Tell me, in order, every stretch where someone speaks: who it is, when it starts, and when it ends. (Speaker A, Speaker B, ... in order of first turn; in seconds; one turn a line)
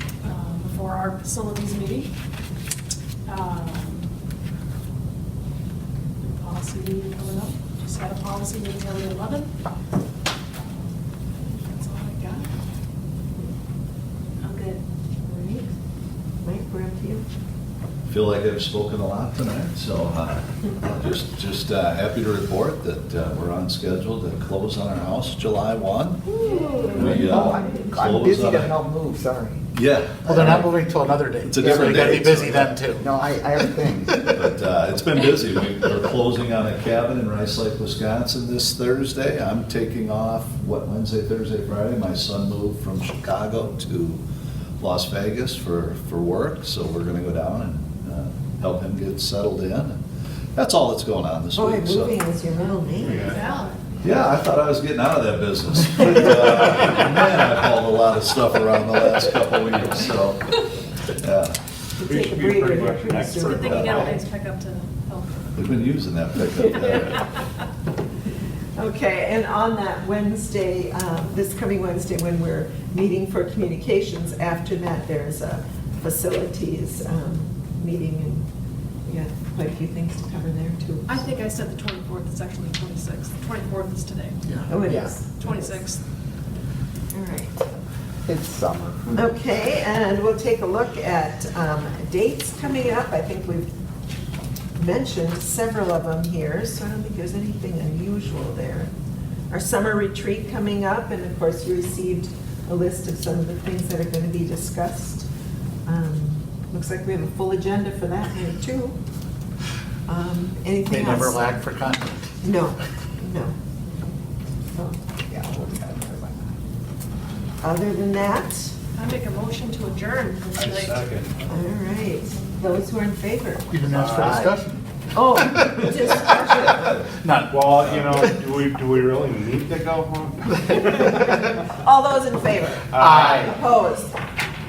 Speaker A: 0.2-2.1
Speaker A: 3.2-4.1
Speaker A: 6.2-9.5
Speaker A: 10.6-12.5
Speaker A: 14.4-14.8
Speaker B: 15.2-15.7
Speaker B: 16.4-17.2
Speaker C: 18.1-26.4
Speaker B: 26.2-27.9
Speaker C: 26.9-28.8
Speaker D: 27.1-29.6
Speaker C: 29.7-30.7
Speaker E: 30.2-33.1
Speaker C: 31.4-32.8
Speaker D: 31.6-32.2
Speaker D: 32.9-34.4
Speaker C: 34.2-44.2
Speaker C: 44.8-49.9
Speaker C: 50.5-52.2
Speaker B: 51.5-53.4
Speaker F: 53.0-53.5
Speaker A: 53.1-53.8
Speaker C: 54.0-60.5
Speaker C: 61.2-61.6
Speaker B: 62.0-64.2
Speaker F: 62.0-64.1
Speaker A: 63.4-65.5
Speaker C: 63.6-64.1
Speaker C: 65.5-67.2
Speaker B: 66.7-67.0
Speaker B: 68.8-78.5
Speaker B: 79.0-81.3
Speaker A: 81.1-84.7
Speaker B: 84.7-85.8
Speaker D: 84.8-85.1
Speaker A: 85.4-86.0
Speaker B: 87.1-87.6
Speaker D: 88.2-89.2
Speaker B: 89.1-93.7
Speaker B: 94.8-98.9
Speaker B: 99.5-105.3
Speaker B: 105.8-109.0
Speaker B: 110.1-111.5
Speaker E: 110.8-112.3
Speaker B: 112.4-113.5
Speaker D: 115.3-116.5
Speaker B: 117.6-118.7
Speaker A: 119.0-121.0
Speaker C: 120.7-121.2
Speaker B: 121.5-123.8
Speaker E: 123.7-124.8
Speaker F: 123.9-124.5
Speaker B: 125.1-127.0
Speaker E: 125.4-126.2
Speaker E: 127.2-127.6
Speaker F: 127.5-131.6
Speaker B: 131.1-134.2
Speaker F: 132.9-133.5
Speaker E: 133.0-133.5